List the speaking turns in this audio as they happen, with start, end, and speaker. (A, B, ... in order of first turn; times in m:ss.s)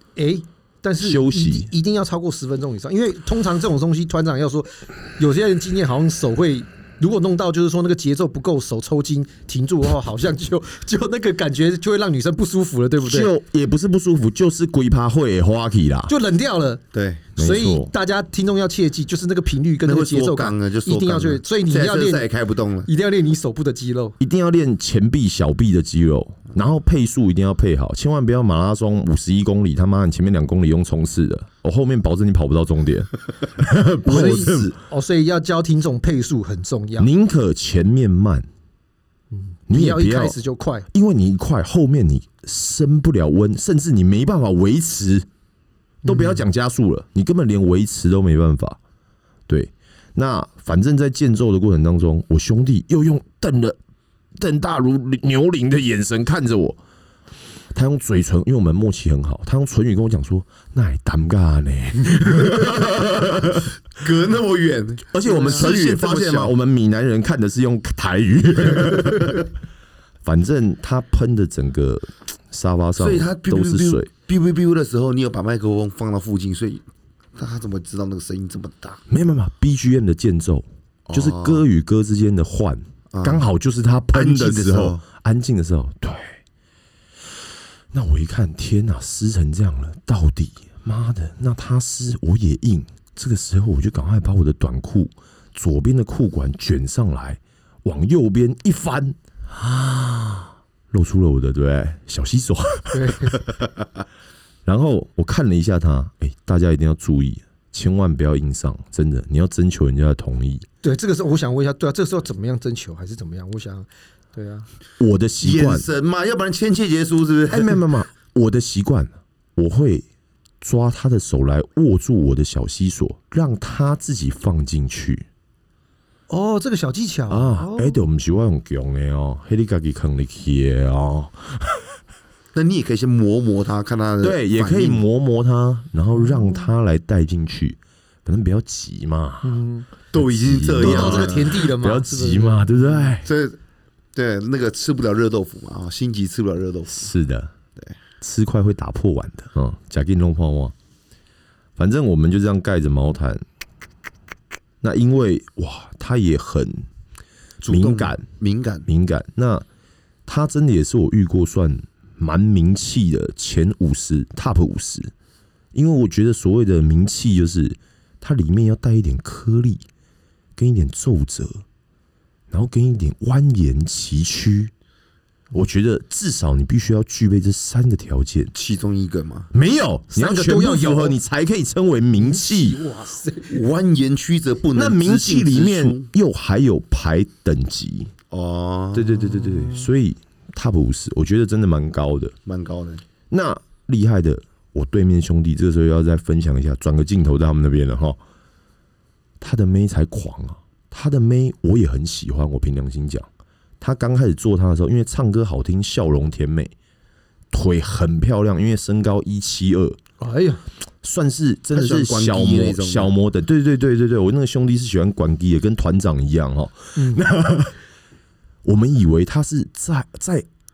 0:00.2-0:13.3 A
0:01.0-0:01.7 B
0:13.0-0:16.1 B
0:16.1-0:16.8 A
0:16.9-0:17.3 C
0:17.4-0:22.3 A
0:17.4-0:17.9 B
0:19.8-0:22.9 C
0:22.8-0:24.2 A
0:24.2-0:34.7 B
0:34.0-0:37.1 A
0:37.0-0:38.4 B
0:39.5-0:40.9 A
0:39.7-0:40.4 B
0:40.9-0:45.2 B
0:46.0-0:48.8 B
0:46.0-0:46.4 A
0:49.5-0:53.8 B
0:54.4-0:56.8 B
0:57.7-1:03.7 B
1:03.0-1:03.2 C
1:03.9-1:06.5 C
1:05.1-1:09.5 B
1:10.2-1:14.1 B
1:13.0-1:16.8 C
1:17.3-1:19.0 C
1:19.1-1:26.4 B
1:21.1-1:21.6 C
1:23.1-1:23.5 C
1:24.1-1:25.0 C
1:27.9-1:43.5 B
1:42.9-1:43.4 A
1:44.6-1:50.6 B
1:50.8-1:54.7 A
1:55.0-1:55.9 B
1:55.4-1:57.8 C
1:57.5-2:00.0 B
2:00.6-2:05.3 B
2:06.3-2:08.0 A
2:07.3-2:11.8 B
2:12.5-2:15.0 C
2:14.2-2:19.6 B
2:19.4-2:20.0 A
2:20.1-2:21.6 C
2:20.2-2:23.3 B
2:20.8-2:23.1 A
2:23.2-2:23.6 C
2:24.1-2:27.1 C
2:26.9-2:27.5 B
2:28.2-2:30.7 B
2:31.8-2:33.4 B
2:34.8-2:36.9 B
2:37.6-2:38.9 C
2:37.7-2:38.2 B
2:38.9-2:39.6 B
2:40.3-2:45.1 B
2:45.7-2:49.8 B
2:50.6-2:51.6 B
2:52.5-2:54.7 B
2:55.5-2:58.5 B
2:58.5-2:59.5 C
2:59.5-3:02.8 B
3:00.1-3:01.2 A
3:02.2-3:03.6 A
3:03.4-3:06.1 C
3:04.7-3:08.1 B
3:08.3-3:09.2 C
3:08.9-3:12.3 B
3:09.3-3:09.9 A
3:12.4-3:13.0 C
3:13.3-3:18.2 B
3:19.4-3:23.3 B
3:23.8-3:26.7 B
3:27.5-3:30.0 B
3:30.2-3:30.6 A
3:31.0-3:37.8 B
3:31.7-3:33.1 C
3:38.6-3:40.4 B